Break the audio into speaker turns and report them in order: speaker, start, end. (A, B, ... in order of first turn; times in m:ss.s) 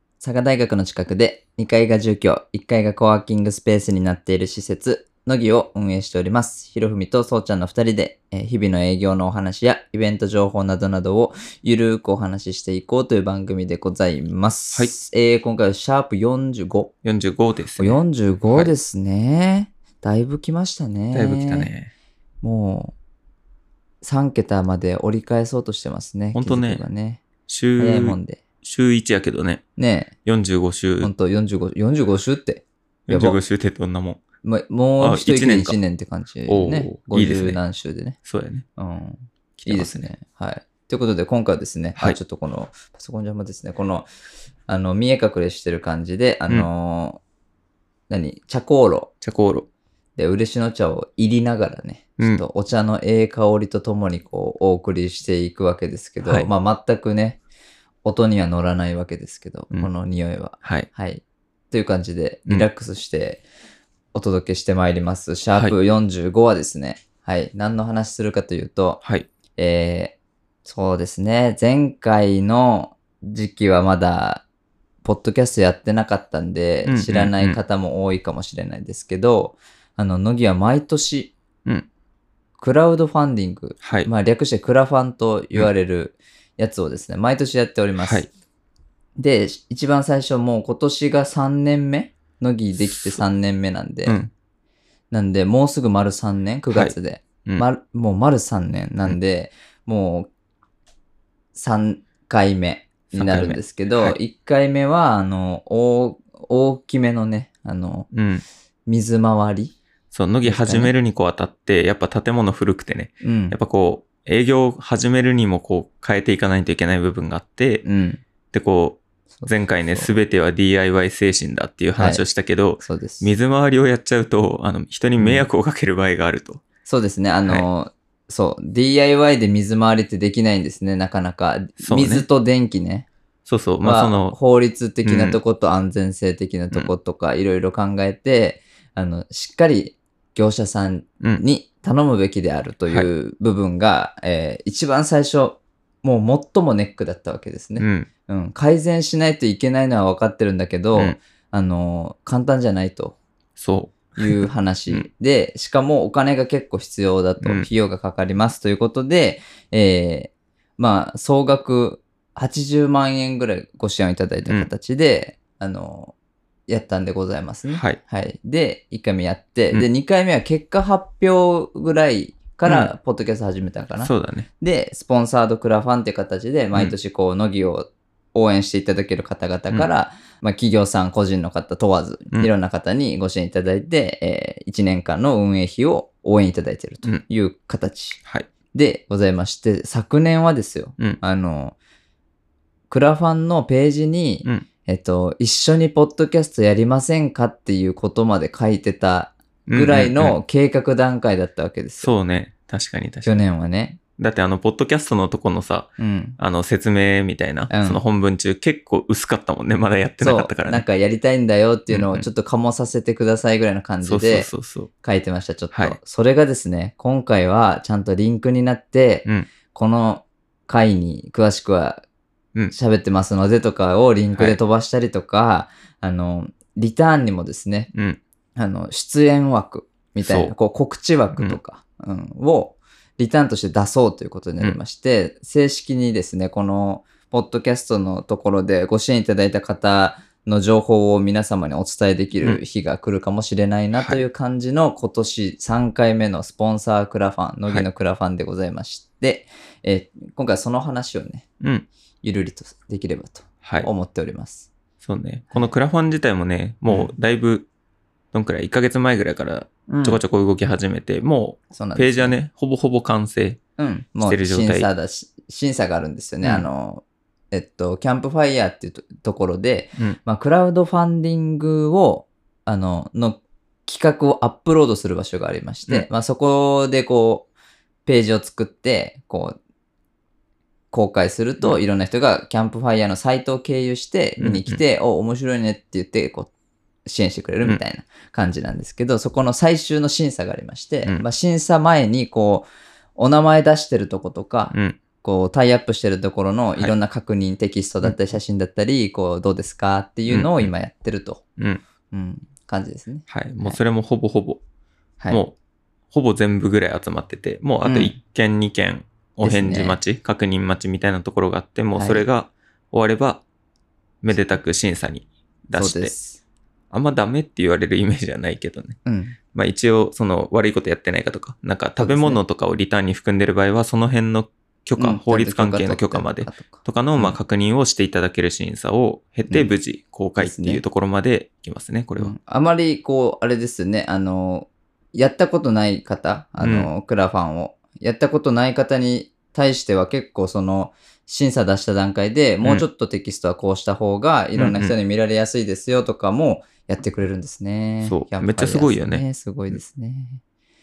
0:00.2-0:16.9 A
0:17.0-0:18.7 B
0:17.8-0:21.7 A
0:21.1-0:21.9 B
0:22.4-0:22.9 A
0:24.0-0:27.2 A
0:26.3-0:26.8 B
0:27.5-0:29.6 B
0:27.8-0:28.4 A
0:29.8-0:30.1 A
0:30.2-0:31.1 B
0:31.0-0:33.4 A
0:33.1-0:34.2 B
0:34.4-0:38.2 A
0:35.0-0:35.8 B
0:36.4-0:37.6 B
0:38.2-0:38.6 B
0:38.8-0:44.1 A
0:39.6-0:40.1 B
0:44.7-0:47.2 A
0:48.1-0:49.1 A
0:49.2-0:49.7 B
0:50.2-0:57.4 A
0:56.2-0:56.5 B
0:58.0-1:03.4 A
1:04.1-1:09.0 A
1:09.6-1:14.4 A
1:15.0-1:21.3 A
1:16.9-1:17.6 B
1:22.6-1:28.2 A
1:23.8-1:24.1 B
1:28.0-1:28.3 B
1:29.2-1:34.2 A
1:32.7-1:33.2 B
1:34.0-1:34.3 B
1:35.1-1:40.3 A
1:36.7-1:36.9 B
1:41.5-1:48.1 A
1:43.1-1:44.2 B
1:48.1-1:48.4 B
1:48.9-1:49.7 A
1:50.1-1:57.8 B
1:50.4-1:50.9 A
1:53.2-1:53.6 A
1:57.8-1:58.2 A
1:58.5-2:06.6 B
1:59.4-2:00.2 A
2:02.0-2:02.2 A
2:02.8-2:03.3 A
2:05.2-2:05.5 A
2:06.8-2:13.1 A
2:11.8-2:12.2 B
2:13.4-2:14.4 B
2:13.8-2:33.2 A
2:15.0-2:15.4 B
2:27.8-2:28.1 B
2:33.6-2:35.1 B
2:34.2-2:46.1 A
2:37.4-2:37.7 B
2:46.7-3:08.2 A
2:47.7-2:48.0 B
2:52.6-2:52.9 B
2:54.0-2:54.5 B
3:08.7-3:11.8 A
3:12.9-3:22.1 A
3:19.7-3:20.4 B
3:22.0-3:23.4 B
3:23.2-3:24.0 A
3:24.2-3:30.8 B
3:26.0-3:26.4 A
3:27.7-3:28.0 A
3:30.2-3:34.5 A
3:31.9-3:32.2 B
3:34.0-3:34.9 B
3:35.0-3:42.0 A
3:35.7-3:36.0 B
3:42.7-3:47.9 A
3:47.9-3:48.2 B
3:48.6-4:11.4 A
3:50.2-3:50.5 B
3:51.3-3:51.6 B
4:03.9-4:04.2 B
4:11.6-4:11.9 B
4:12.2-4:14.7 A
4:13.6-4:13.9 B
4:15.0-4:17.7 B
4:18.3-4:23.6 B
4:19.9-4:20.2 A
4:21.7-4:22.4 A
4:23.8-4:37.5 A
4:24.2-4:24.9 B
4:26.4-4:26.7 B
4:38.0-4:39.6 A
4:40.9-4:46.5 A
4:44.4-4:44.8 B
4:47.0-5:01.4 A
4:54.7-4:55.0 B
4:58.0-4:58.4 B
5:00.3-5:00.7 B
5:02.1-5:03.8 A
5:03.3-5:04.6 B
5:05.3-5:05.6 B
5:06.1-5:13.4 B
5:07.8-5:08.2 A
5:09.4-5:10.0 A
5:11.9-5:12.2 A
5:14.2-5:16.1 B
5:15.7-5:16.4 A
5:16.9-5:19.0 B
5:19.0-5:19.4 A
5:19.5-5:32.3 B
5:22.0-5:22.4 A
5:25.0-5:27.4 A
5:30.4-5:30.8 A
5:32.2-5:50.4 A
5:36.6-5:36.9 B
5:44.6-5:44.9 B
5:48.0-5:49.8 B